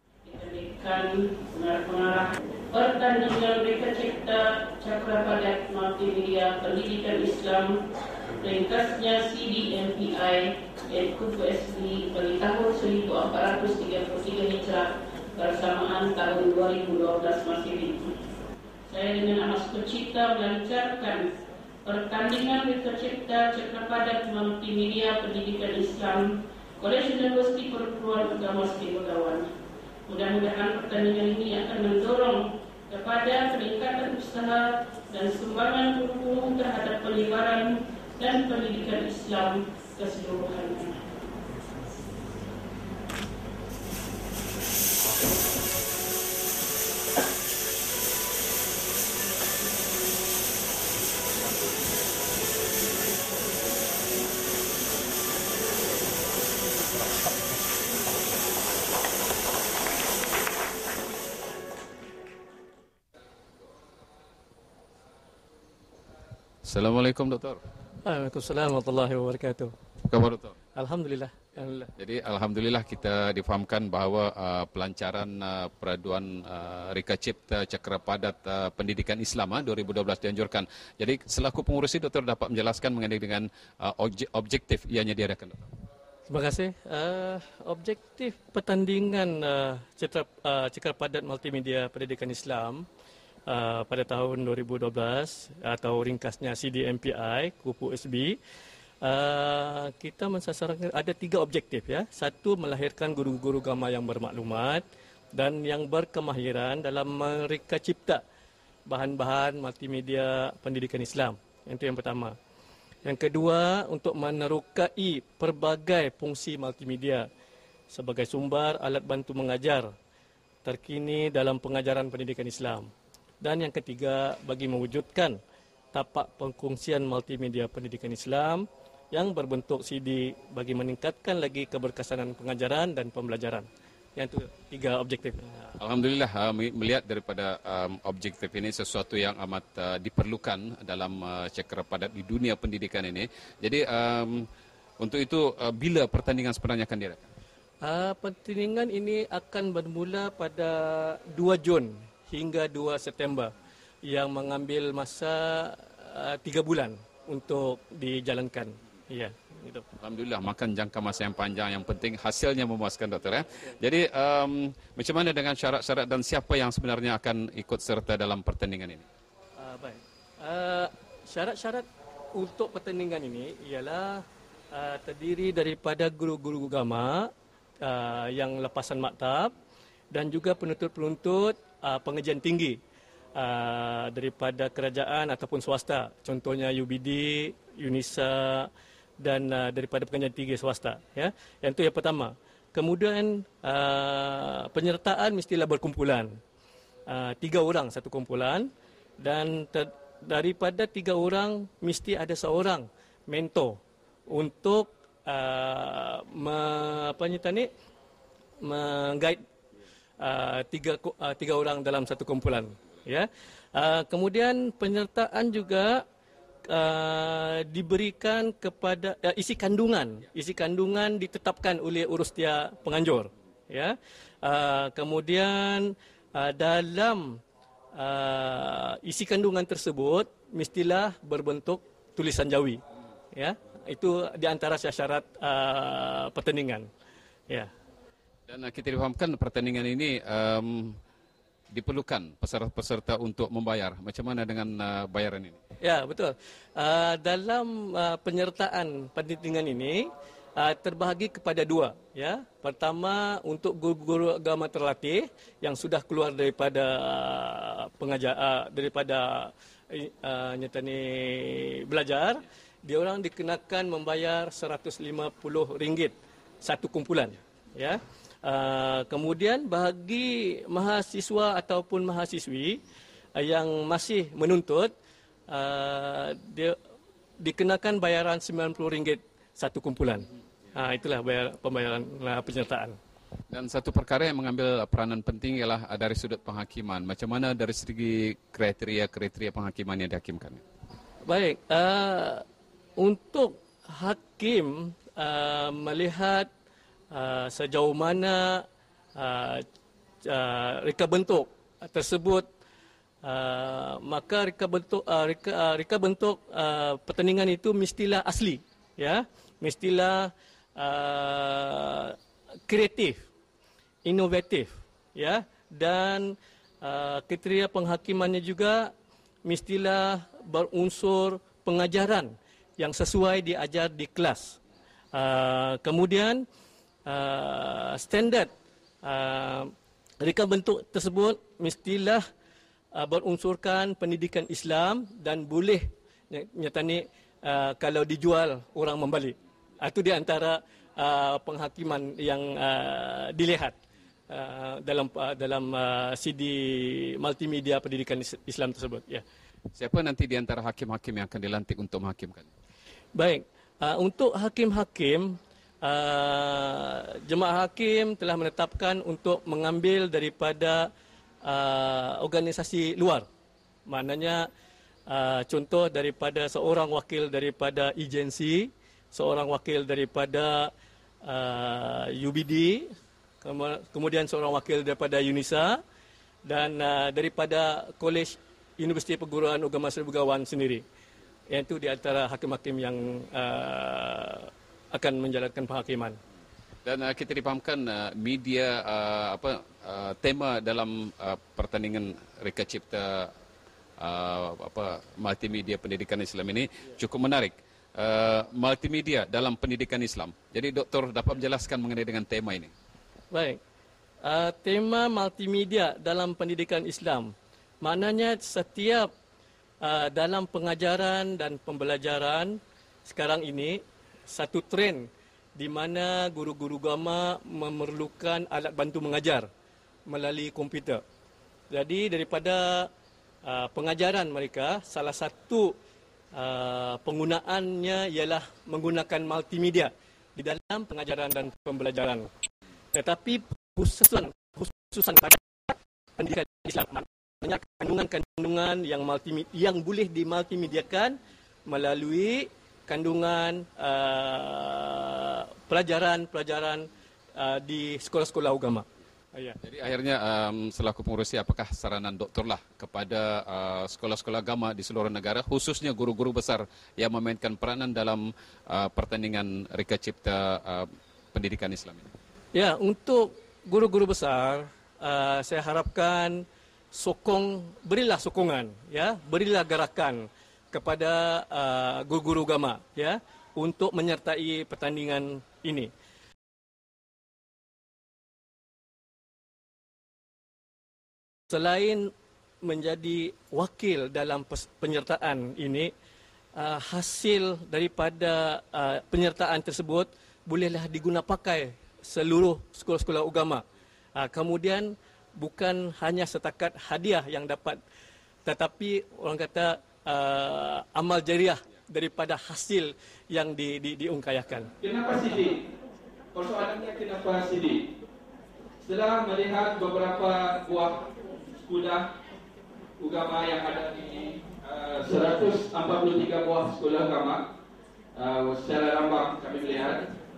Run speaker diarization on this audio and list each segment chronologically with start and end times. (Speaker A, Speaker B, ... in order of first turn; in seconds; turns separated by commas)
Speaker A: 0.2-7.7, Speaker A: 8.4-18.1, Speaker A: 18.9-21.2, Speaker A: 21.8-26.3, Speaker A: 26.8-29.5, Speaker A: 30.1-41.0, Speaker B: 66.6-67.6, Speaker C: 68.0-69.7, Speaker B: 70.1-70.5, Speaker C: 70.7-71.9, Speaker B: 72.0-85.7, Speaker C: 86.3-92.8, Speaker C: 93.5-98.3, Speaker C: 99.0-104.8, Speaker C: 105.3-108.2, Speaker C: 108.9-112.3, Speaker C: 113.0-117.3, Speaker C: 117.9-119.9, Speaker C: 120.6-122.9, Speaker C: 123.4-125.4, Speaker C: 125.9-135.7, Speaker B: 135.8-144.5, Speaker B: 145.0-147.3, Speaker C: 147.8-153.5, Speaker C: 154.1-159.8, Speaker B: 160.0-169.0, Speaker C: 169.6-171.8, Speaker C: 172.3-177.3, Speaker C: 177.8-179.5, Speaker C: 180.1-182.8, Speaker C: 183.3-196.3, Speaker C: 197.1-198.7, Speaker C: 199.2-207.7, Speaker C: 208.6-209.4, Speaker C: 210.2-216.0, Speaker C: 216.7-227.4, Speaker C: 227.9-232.8, Speaker C: 233.3-236.9, Speaker B: 238.5-241.0, Speaker B: 241.7-245.6, Speaker C: 245.8-272.8, Speaker C: 273.4-274.9, Speaker C: 275.5-276.7, Speaker C: 277.4-282.9, Speaker B: 283.5-290.6, Speaker C: 291.2-292.4, Speaker C: 293.0-296.5, Speaker C: 297.1-298.6, Speaker C: 299.2-299.6, Speaker C: 300.2-302.5, Speaker C: 303.2-312.1, Speaker C: 312.7-313.2, Speaker C: 314.1-318.9, Speaker C: 319.5-324.6, Speaker C: 325.1-326.4, Speaker C: 327.1-328.5, Speaker C: 329.0-332.2, Speaker C: 332.9-343.8, Speaker C: 344.3-349.2, Speaker B: 349.8-352.5, Speaker C: 353.1-360.9, Speaker C: 361.4-363.2, Speaker C: 363.9-364.5, Speaker C: 365.1-370.7, Speaker C: 371.2-372.9, Speaker C: 373.4-375.8, Speaker C: 376.4-380.8, Speaker C: 381.5-386.2, Speaker B: 386.8-393.3, Speaker B: 394.0-402.7, Speaker C: 403.3-403.6, Speaker C: 404.2-407.3, Speaker C: 407.8-409.1, Speaker C: 409.8-419.5, Speaker C: 420.1-421.0, Speaker C: 421.7-422.9, Speaker C: 423.4-425.7, Speaker C: 426.3-432.3, Speaker C: 432.9-435.4, Speaker C: 436.2-449.6, Speaker B: 449.6-462.1, Speaker C: 462.5-475.9, Speaker C: 481.5-482.1, Speaker C: 482.6-485.9, Speaker C: 486.6-493.6, Speaker C: 494.1-497.8, Speaker C: 498.4-504.7, Speaker D: 504.8-505.6, Speaker D: 506.3-507.8, Speaker D: 508.9-511.1, Speaker D: 511.6-512.1, Speaker D: 513.0-517.4, Speaker D: 518.1-520.0